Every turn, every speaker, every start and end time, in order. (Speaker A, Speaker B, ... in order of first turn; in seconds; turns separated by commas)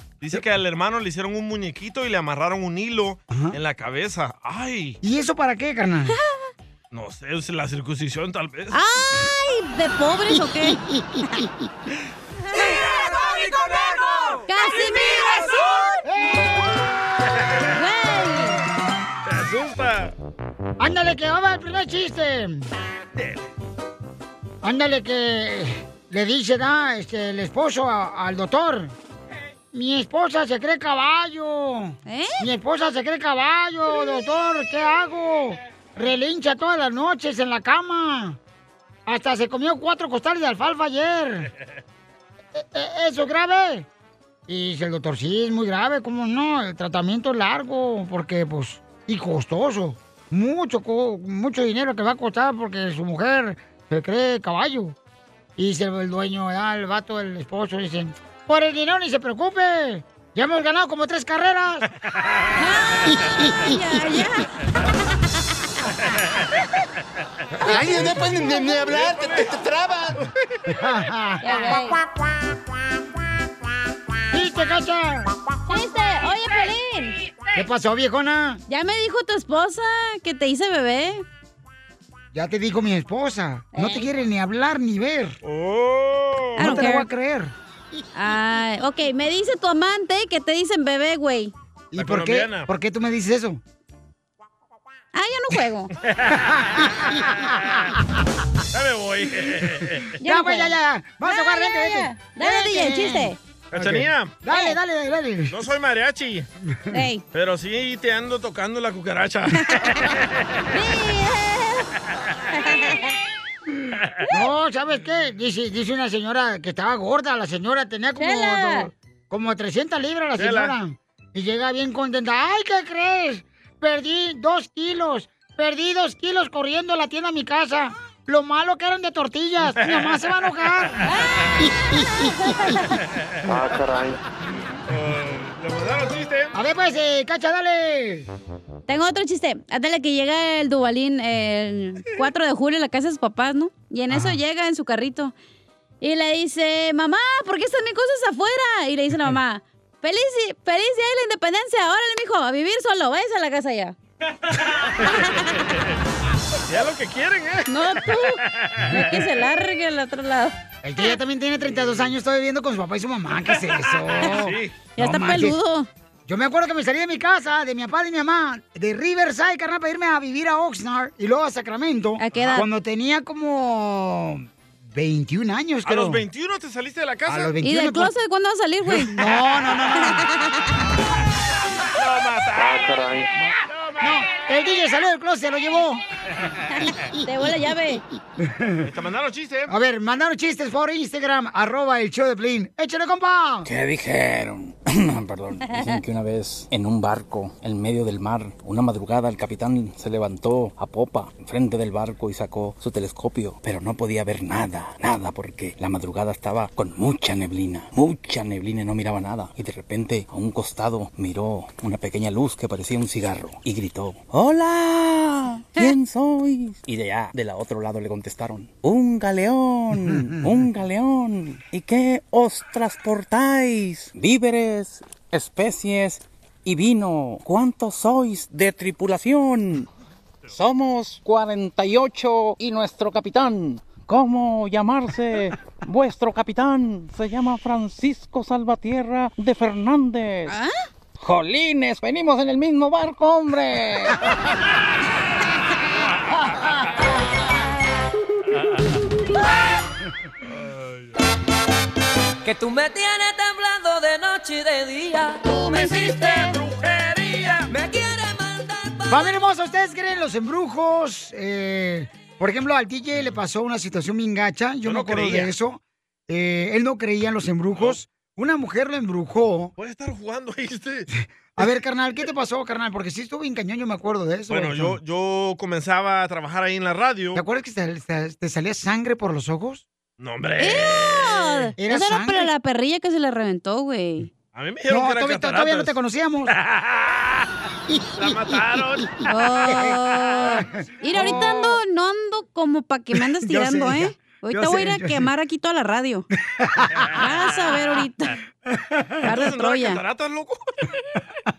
Speaker A: 0.2-5.0, Speaker B: 3.3-3.5, Speaker B: 5.0-6.2, Speaker A: 6.9-8.7, Speaker C: 8.7-11.4, Speaker C: 14.5-15.6, Speaker B: 16.0-16.6, Speaker C: 17.7-18.6, Speaker A: 19.2-20.1, Speaker B: 20.8-22.7, Speaker A: 23.1-23.4, Speaker B: 24.6-28.9, Speaker B: 29.7-38.4, Speaker C: 32.0-32.4, Speaker B: 39.1-41.5, Speaker B: 42.5-43.9, Speaker B: 44.5-55.0, Speaker B: 55.6-61.9, Speaker C: 62.5-64.5, Speaker D: 67.6-70.2, Speaker C: 67.7-68.8, Speaker B: 70.7-71.8, Speaker C: 71.4-72.0, Speaker B: 74.3-75.3, Speaker C: 75.7-77.2, Speaker B: 77.5-78.6, Speaker C: 78.7-81.2, Speaker B: 82.3-85.4, Speaker C: 83.7-84.1, Speaker A: 85.4-86.7, Speaker B: 86.6-87.5, Speaker C: 86.6-87.1, Speaker C: 88.1-91.5, Speaker B: 91.9-93.6, Speaker A: 92.0-92.7, Speaker C: 95.1-95.9, Speaker A: 96.1-97.8, Speaker B: 96.4-97.6, Speaker A: 98.7-100.2, Speaker C: 100.2-103.4, Speaker B: 100.2-105.5, Speaker A: 103.7-104.3, Speaker C: 104.5-104.8, Speaker A: 105.5-106.5, Speaker C: 106.9-107.2, Speaker A: 107.3-110.6, Speaker C: 110.7-111.9, Speaker C: 112.5-113.1, Speaker B: 114.3-131.0, Speaker C: 118.2-118.9, Speaker A: 120.4-120.7, Speaker A: 129.8-130.2, Speaker C: 131.0-132.9, Speaker A: 134.9-136.5, Speaker B: 136.5-138.3, Speaker C: 138.9-145.3, Speaker B: 144.1-144.4, Speaker C: 146.0-153.9, Speaker A: 155.0-155.7, Speaker C: 155.1-155.4, Speaker A: 156.7-159.3, Speaker C: 157.7-160.5, Speaker B: 160.8-165.6, Speaker A: 161.8-162.1, Speaker A: 163.7-164.7, Speaker C: 164.9-165.9, Speaker B: 166.3-176.2, Speaker C: 172.2-172.7, Speaker A: 175.8-177.5, Speaker B: 177.3-178.1, Speaker C: 177.6-179.3, Speaker B: 179.1-180.2, Speaker C: 179.9-180.7, Speaker A: 181.9-184.5, Speaker B: 184.0-186.0, Speaker C: 187.2-188.0, Speaker B: 188.4-188.8, Speaker A: 188.8-189.7, Speaker B: 189.7-193.7, Speaker E: 193.7-229.9, Speaker E: 230.5-240.6, Speaker E: 241.2-244.2, Speaker A: 250.5-251.1, Speaker F: 252.4-259.2, Speaker B: 259.1-269.7, Speaker A: 264.8-265.5, Speaker A: 267.7-268.0, Speaker A: 269.8-271.1, Speaker B: 271.2-275.0, Speaker A: 274.5-277.4, Speaker B: 277.3-279.8, Speaker A: 280.2-281.7, Speaker C: 280.6-284.3, Speaker B: 281.8-282.5, Speaker A: 284.5-285.9, Speaker B: 284.9-286.5, Speaker A: 286.5-287.5, Speaker A: 288.1-289.2, Speaker C: 289.3-296.2, Speaker B: 291.1-291.8, Speaker B: 293.4-295.3, Speaker B: 296.6-297.1, Speaker A: 297.1-297.6, Speaker C: 297.1-298.3, Speaker C: 299.2-300.0, Speaker A: 299.2-301.0